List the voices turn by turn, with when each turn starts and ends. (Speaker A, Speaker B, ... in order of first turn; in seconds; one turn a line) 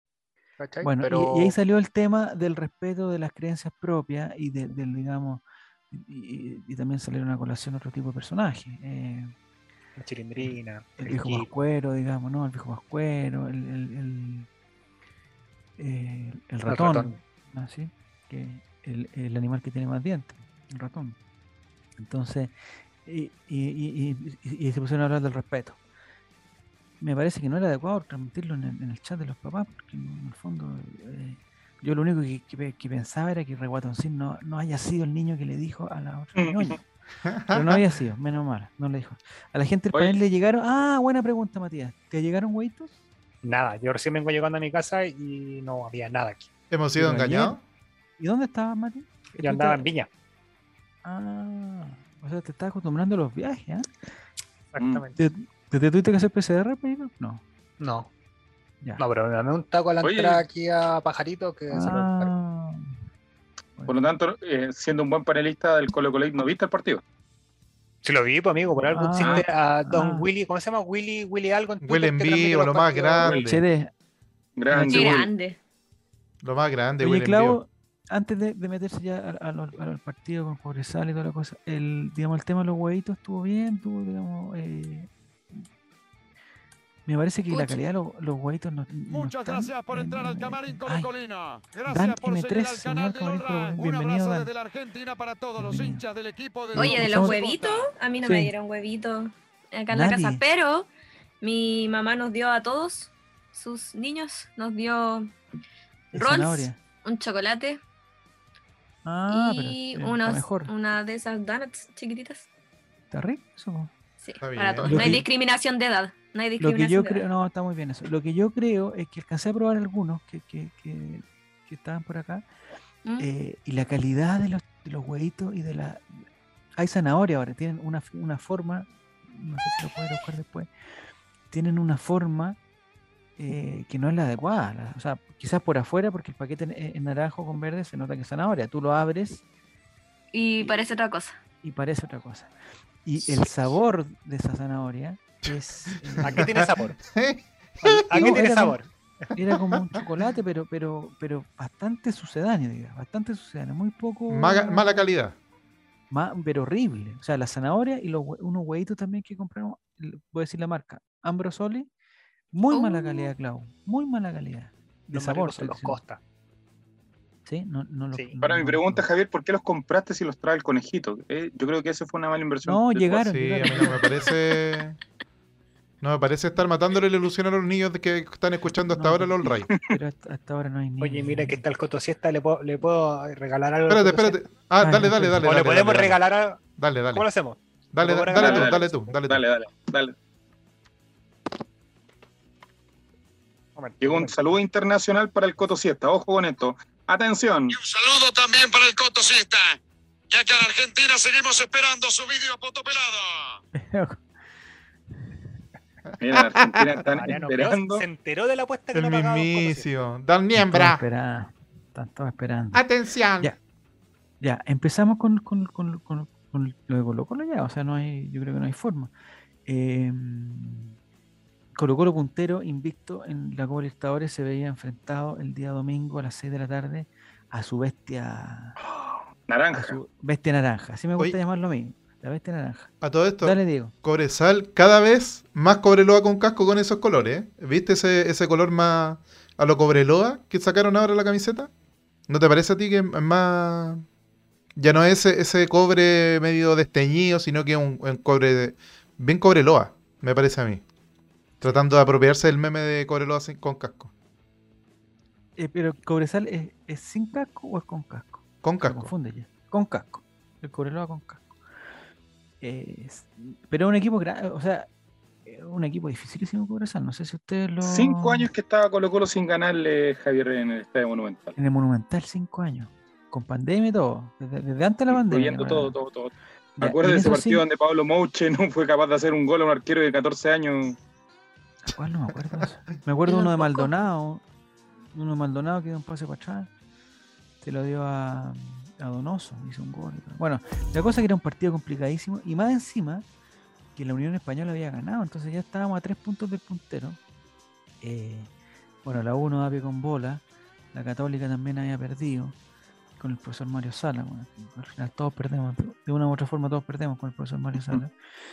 Speaker A: 0.6-1.6
Speaker B: 0.8-9.3
Speaker A: 10.0-11.5
Speaker B: 10.4-14.5
Speaker B: 15.8-21.2
Speaker A: 16.7-17.2
Speaker B: 22.0-22.5
Speaker B: 23.0-25.8
Speaker B: 27.0-36.8
Speaker C: 36.4-36.8
Speaker D: 37.2-37.8
Speaker B: 37.5-43.0
Speaker C: 39.9-40.2
Speaker A: 43.4-46.5
Speaker D: 46.7-47.6
Speaker B: 47.0-47.6
Speaker B: 48.2-49.9
Speaker A: 49.4-50.1
Speaker B: 51.0-54.0
Speaker A: 54.7-55.2
Speaker B: 55.2-57.4
Speaker A: 57.8-58.1
Speaker A: 59.0-62.3
Speaker C: 60.0-60.4
Speaker B: 61.7-62.9
Speaker B: 63.8-64.1
Speaker C: 63.9-67.0
Speaker A: 68.0-73.2
Speaker B: 68.9-70.2
Speaker D: 71.8-73.6
Speaker B: 73.3-73.9
Speaker C: 74.6-75.3
Speaker B: 74.7-75.1
Speaker E: 74.9-75.6
Speaker D: 76.4-77.6
Speaker B: 77.0-85.1
Speaker B: 87.1-91.1
Speaker E: 87.5-87.8
Speaker F: 89.1-97.9
Speaker B: 91.9-94.5
Speaker B: 95.6-96.0
Speaker B: 96.7-97.4
Speaker E: 96.7-100.9
Speaker B: 98.2-98.5
Speaker B: 99.9-100.5
Speaker E: 101.4-105.3
Speaker B: 106.1-106.8
Speaker E: 106.1-107.8
Speaker B: 109.0-110.7
Speaker E: 109.3-112.5
Speaker B: 113.1-113.9
Speaker E: 114.2-117.2
Speaker D: 114.4-115.2
Speaker B: 114.8-115.3
Speaker B: 116.6-122.5
Speaker B: 123.2-126.0
Speaker B: 126.8-130.7
Speaker B: 131.5-132.6
Speaker B: 133.4-139.4
Speaker E: 140.3-141.4
Speaker B: 141.6-142.5
Speaker B: 143.1-146.4
Speaker D: 143.2-143.5
Speaker D: 146.2-148.7
Speaker A: 146.2-147.0
Speaker A: 147.8-148.9
Speaker B: 148.1-148.8
Speaker B: 149.3-155.1
Speaker D: 154.3-155.4
Speaker B: 156.1-161.9
Speaker B: 162.5-166.0
Speaker E: 162.7-163.3
Speaker A: 165.1-166.2
Speaker B: 167.5-169.1
Speaker C: 168.4-173.3
Speaker B: 172.7-174.0
Speaker D: 173.3-175.0
Speaker D: 176.0-179.7
Speaker B: 178.7-181.6
Speaker A: 181.0-184.4
Speaker D: 183.9-186.2
Speaker B: 184.8-185.5
Speaker A: 185.4-186.6
Speaker D: 186.8-187.3
Speaker A: 187.1-188.9
Speaker D: 187.9-189.4
Speaker C: 188.3-190.2
Speaker A: 193.8-194.4
Speaker C: 194.0-197.8
Speaker F: 197.7-199.8
Speaker F: 200.3-203.6
Speaker B: 203.8-204.2
Speaker D: 206.1-206.9
Speaker C: 206.2-208.0
Speaker A: 207.2-209.9
Speaker D: 208.9-211.0
Speaker B: 210.6-212.8
Speaker D: 212.7-213.5
Speaker B: 214.4-219.1
Speaker B: 219.7-220.9
Speaker B: 221.8-228.8
Speaker C: 228.8-230.0
Speaker B: 229.7-233.9
Speaker D: 233.0-241.7
Speaker D: 242.3-244.1
Speaker D: 244.8-250.8
Speaker D: 251.6-254.1
Speaker B: 255.6-261.5
Speaker D: 258.6-259.1
Speaker B: 262.6-264.9
Speaker B: 265.5-268.5
Speaker C: 267.8-271.6
Speaker B: 271.6-275.9
Speaker C: 275.1-281.0
Speaker B: 276.8-277.6
Speaker B: 281.9-284.4
Speaker E: 283.3-283.9
Speaker B: 285.1-286.7
Speaker B: 287.6-293.3
Speaker B: 294.0-297.2
Speaker B: 298.0-298.5
Speaker B: 299.1-302.6
Speaker B: 303.2-308.1